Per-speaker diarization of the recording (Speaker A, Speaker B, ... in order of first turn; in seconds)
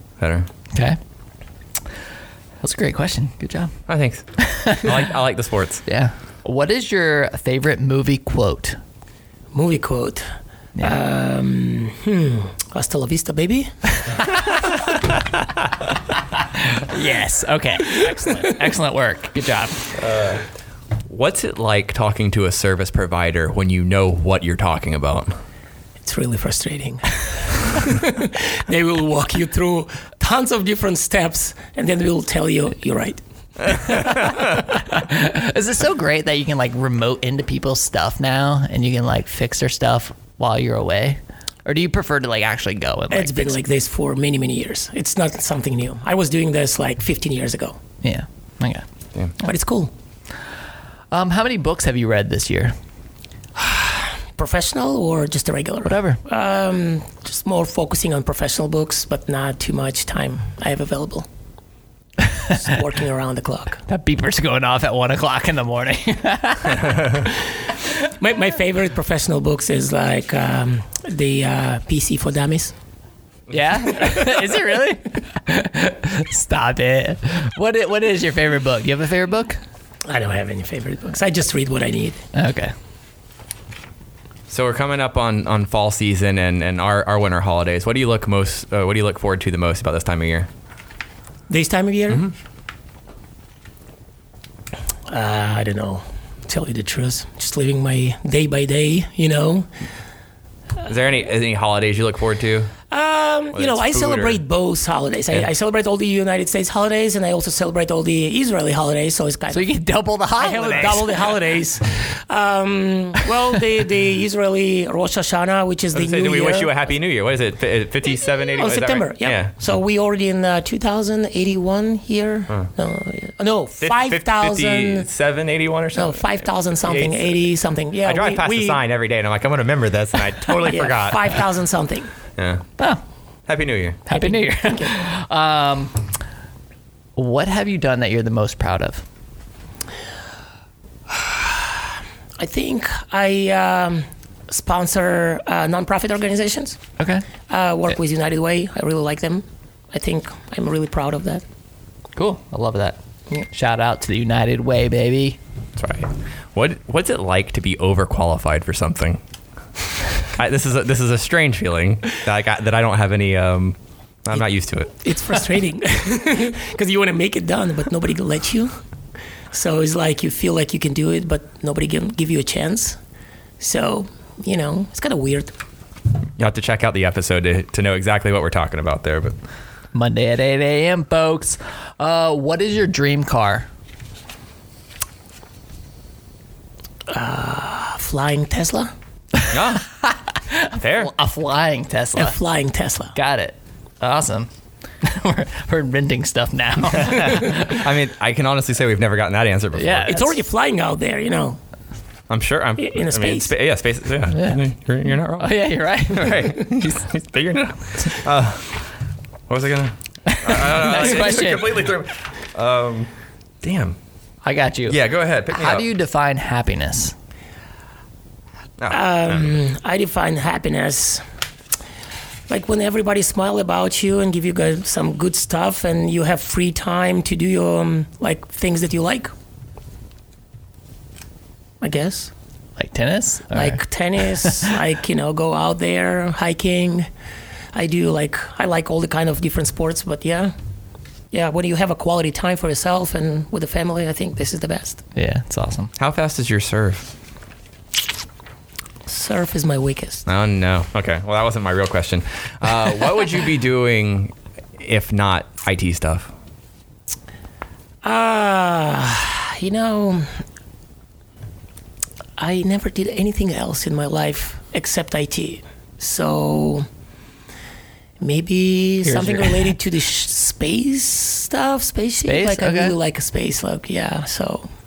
Speaker A: 0.2-0.5, 3.9-5.8, 14.7-15.0, 19.9-20.4, 21.1-25.4, 84.5-90.5, 100.8-102.7, 103.5-104.4, 115.9-119.5, 123.8-127.5, 128.0-131.5, 132.4-132.6, 133.5-134.0, 155.8-159.2, 160.3-165.0, 176.4-179.4, 189.5-189.9, 190.7-191.1, 197.0-200.2, 202.3-208.8, 209.5-213.1, 213.6-213.9, 214.8-215.9, 218.8-219.5, 246.0-247.1, 250.2-256.3
Speaker B: 2.6-3.8, 4.4-5.0, 5.9-8.8, 16.7-19.8, 33.9-43.6, 48.0-48.8, 51.1-52.7, 55.8-56.2, 62.2-62.5, 63.9-67.2, 73.5-79.6, 82.3-82.7, 109.5-111.2, 134.1-136.1, 137.2-139.0, 147.0-147.2, 152.2-155.4, 179.9-183.7, 189.4-192.4, 193.1-194.5, 195.0-197.8, 199.7-200.4, 204.3-204.6, 205.4-206.7, 210.3-211.9, 214.4-217.1, 232.8-234.7, 245.2-245.9, 269.0-269.8, 272.2-272.9
Speaker C: 9.5-10.2, 10.8-14.4, 18.4-18.7, 26.1-34.1, 43.1-47.8, 49.4-49.9, 53.6-61.2, 62.4-63.8, 68.2-72.7, 80.0-82.2, 91.5-92.3, 95.1-99.7, 102.9-109.7, 110.3-116.8, 118.5-125.1, 125.9-128.8, 130.5-132.1, 134.1-134.9, 141.2-141.5, 142.4-146.8, 147.5-151.4, 165.0-168.7, 169.5-172.9, 173.6-175.5, 187.1-188.9, 192.2-193.1, 200.1-201.6, 202.8-203.5, 218.9-221.2, 222.5-229.3, 231.8-232.3, 233.5-237.1, 237.7-240.5, 241.3-245.0, 249.1-250.2, 258.0-260.3, 262.4-266.9, 268.2-274.7